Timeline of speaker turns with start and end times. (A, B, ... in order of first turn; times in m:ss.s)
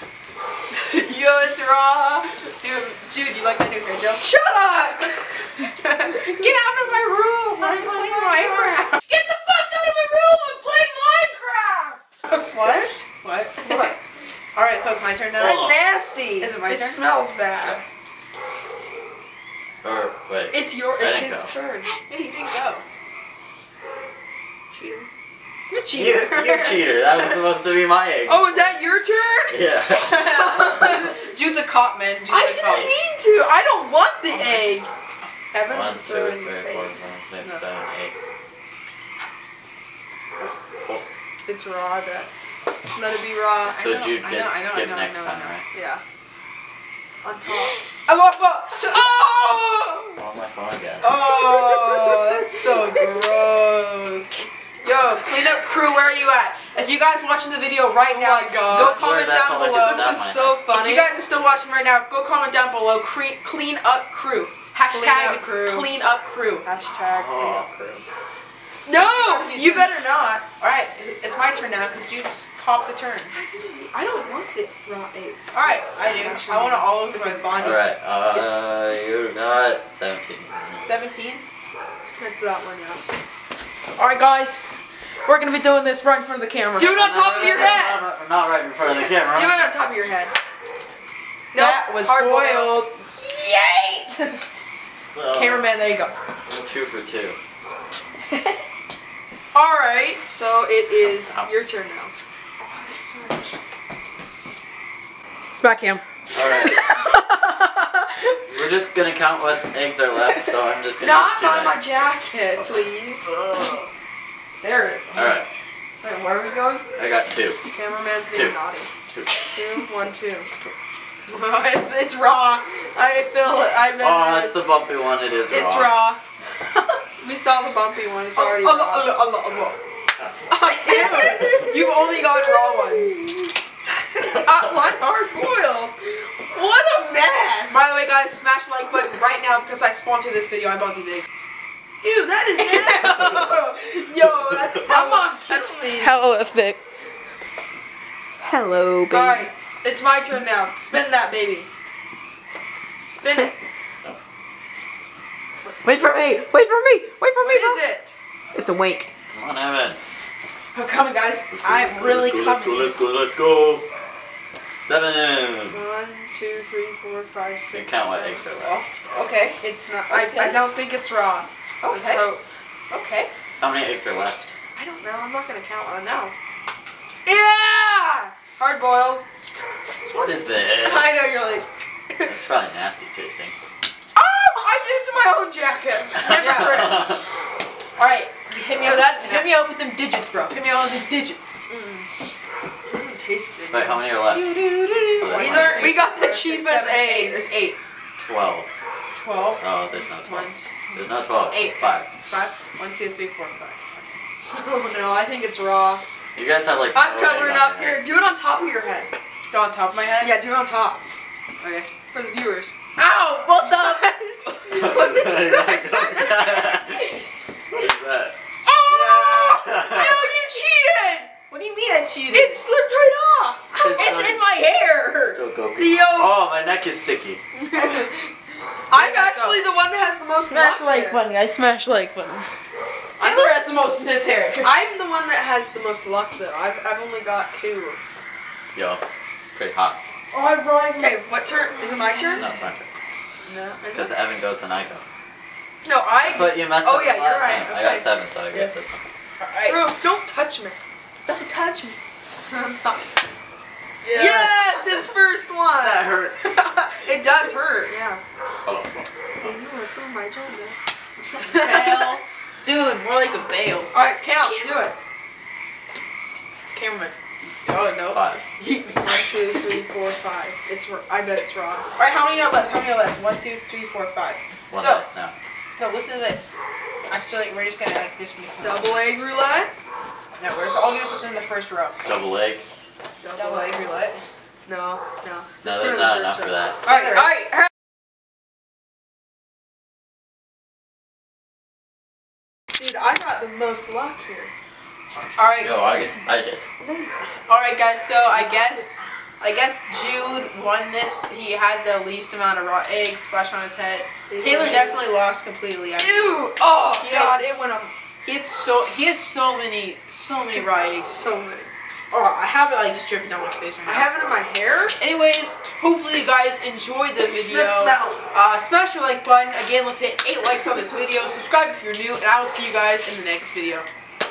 0:00.7-0:04.2 A
0:04.2-0:05.5 B
0:05.6-0:09.0 A
0:07.6-0:13.0 B
0:12.6-0:13.9 A
0:13.6-0:14.0 B
0:14.5-0:15.6 A
0:15.4-0:17.8 B
0:15.4-0:15.8 C
0:16.4-0:17.0 A
0:19.8-0:21.5 C
0:20.5-0:21.9 B
0:21.8-0:22.8 A
0:24.7-0:25.1 B
0:25.7-0:27.4 A
0:25.9-0:28.7 C
0:28.2-0:31.1 B
0:29.5-0:30.9 C
0:29.9-0:32.9 A
0:32.3-0:34.9 B
0:34.3-0:34.8 A
0:35.5-0:37.6 B
0:35.6-0:38.1 C
0:41.4-0:42.3 B
0:42.9-0:43.8 B
0:43.6-0:45.6 A
0:43.8-0:45.6 C
0:45.7-0:46.0 B
0:47.2-0:47.7 B
0:48.0-0:49.0 A
0:48.7-0:50.2 B
0:50.2-0:51.1 C
0:51.0-1:06.6 A
0:51.6-0:52.1 B
0:58.0-0:59.1 B
0:58.6-1:00.6 C
0:59.8-1:01.1 B
1:04.9-1:05.9 B
1:06.6-1:08.0 B
1:07.1-1:07.7 C
1:08.8-1:10.4 B
1:08.9-1:09.9 A
1:10.6-1:13.3 A
1:13.3-1:17.7 B
1:15.5-1:17.8 A
1:17.6-1:20.9 C
1:18.3-1:18.6 B
1:20.8-1:21.4 A
1:22.2-1:23.0 B
1:24.0-1:24.6 A
1:25.2-1:27.8 A
1:26.8-1:28.0 B
1:26.9-1:29.7 C
1:29.3-1:30.3 B
1:31.5-1:32.8 B
1:31.5-1:34.4 A
1:35.1-1:35.6 C
1:35.3-1:36.1 A
1:36.5-1:37.4 C
1:39.5-1:42.1 B
1:41.2-1:41.7 C
1:42.6-1:43.6 A
1:45.5-1:48.1 A
1:46.3-1:46.8 C
1:48.5-1:51.9 C
1:51.0-1:53.3 B
1:54.6-1:55.4 A
1:55.1-1:55.5 C
1:56.0-1:56.8 A
1:57.0-1:57.6 C
1:57.6-1:58.9 B
1:58.3-1:58.6 C
1:59.1-1:59.4 C
1:59.4-2:00.5 B
2:01.3-2:04.6 B
2:04.0-2:06.0 C
2:05.5-2:06.2 B
2:07.2-2:09.2 B
2:08.4-2:09.8 A
2:10.5-2:13.3 A
2:10.6-2:17.8 B
2:17.7-2:21.3 A
2:22.0-2:26.2 B
2:22.6-2:26.8 A
2:28.4-2:29.5 A
2:29.1-2:31.7 B
2:33.0-2:33.6 B
2:35.8-2:37.8 A
2:37.4-2:38.1 B
2:38.5-2:39.1 A
2:39.3-2:40.0 C
2:40.7-2:43.0 A
2:41.6-2:43.8 C
2:44.8-2:45.8 C
2:45.7-2:48.4 B
2:47.7-2:48.8 C
2:48.6-2:50.6 A
2:49.6-2:52.4 B
2:51.8-2:52.3 A
2:52.9-2:53.3 A
2:53.6-2:54.5 C
2:54.8-2:56.3 B
2:57.2-2:59.2 B
3:00.1-3:01.2 C
3:00.8-3:02.3 B
3:02.2-3:03.5 C
3:04.1-3:07.1 B
3:06.1-3:07.2 C
3:06.2-3:07.1 A
3:08.0-3:11.5 A
3:08.8-3:09.5 B
3:11.7-3:12.1 B
3:12.8-3:14.1 B
3:13.7-3:14.5 C
3:14.3-3:17.8 A
3:15.2-3:16.0 C
3:15.3-3:17.6 B
3:18.2-3:18.7 C
3:19.1-3:24.2 A
3:19.6-3:22.1 C
3:24.5-3:26.0 B
3:26.3-3:28.1 C
3:26.9-3:29.1 B
3:29.5-3:30.4 A
3:30.2-3:31.0 B
3:31.6-3:31.9 A
3:32.1-3:32.8 B
3:33.0-3:35.1 A
3:34.6-3:36.8 B
3:34.7-3:37.1 C
3:37.7-3:40.2 C
3:38.6-3:41.3 B
3:40.2-3:40.7 A
3:41.5-3:42.6 A
3:42.3-3:44.1 B
3:43.8-3:44.5 C
3:43.8-3:45.4 A
3:45.2-3:47.4 C
3:45.8-3:46.4 B
3:47.7-3:48.1 B
3:48.9-3:51.2 B
3:48.9-3:49.7 A
3:50.3-3:52.5 A
3:53.2-3:54.7 A
3:53.2-3:53.6 B
3:54.6-3:58.0 B
3:58.7-4:00.0 C
4:00.3-4:01.2 A
4:01.0-4:02.5 B
4:01.8-4:02.4 A
4:02.3-4:02.9 C
4:03.4-4:04.1 B
4:03.9-4:05.0 C
4:05.8-4:08.8 B
4:06.2-4:09.0 C
4:09.4-4:09.7 A
4:09.6-4:10.8 B
4:11.3-4:12.0 A
4:12.5-4:13.0 B
4:14.0-4:15.0 A
4:14.1-4:16.1 B
4:15.8-4:16.4 C
4:16.4-4:17.0 A
4:17.0-4:18.2 B
4:18.6-4:19.5 C
4:19.4-4:20.8 B
4:21.3-4:23.9 A
4:21.5-4:22.2 B
4:23.9-4:24.9 B
4:26.7-4:27.1 A
4:27.6-4:29.3 A
4:28.1-4:28.4 C
4:28.6-4:31.8 B
4:32.0-4:35.0 A
4:34.7-4:35.3 C
4:35.8-4:36.5 A
4:37.1-4:39.0 A
4:38.6-4:39.7 B
4:40.4-4:42.0 A
4:42.0-4:42.6 C
4:43.2-4:44.1 B
4:43.3-4:44.2 A
4:44.6-4:47.4 B
4:45.6-4:46.8 C
4:46.8-4:47.4 A
4:52.7-4:54.5 B
4:55.4-4:55.9 A
4:55.6-4:56.6 C
4:56.8-4:57.3 B
4:57.5-5:07.5 A
4:58.3-4:58.9 B
5:04.3-5:05.0 B
5:06.0-5:07.9 B
5:08.2-5:11.2 A
5:11.0-5:11.7 B
5:12.1-5:14.1 A
5:13.8-5:15.0 B
5:15.0-5:23.8 A
5:17.4-5:18.2 B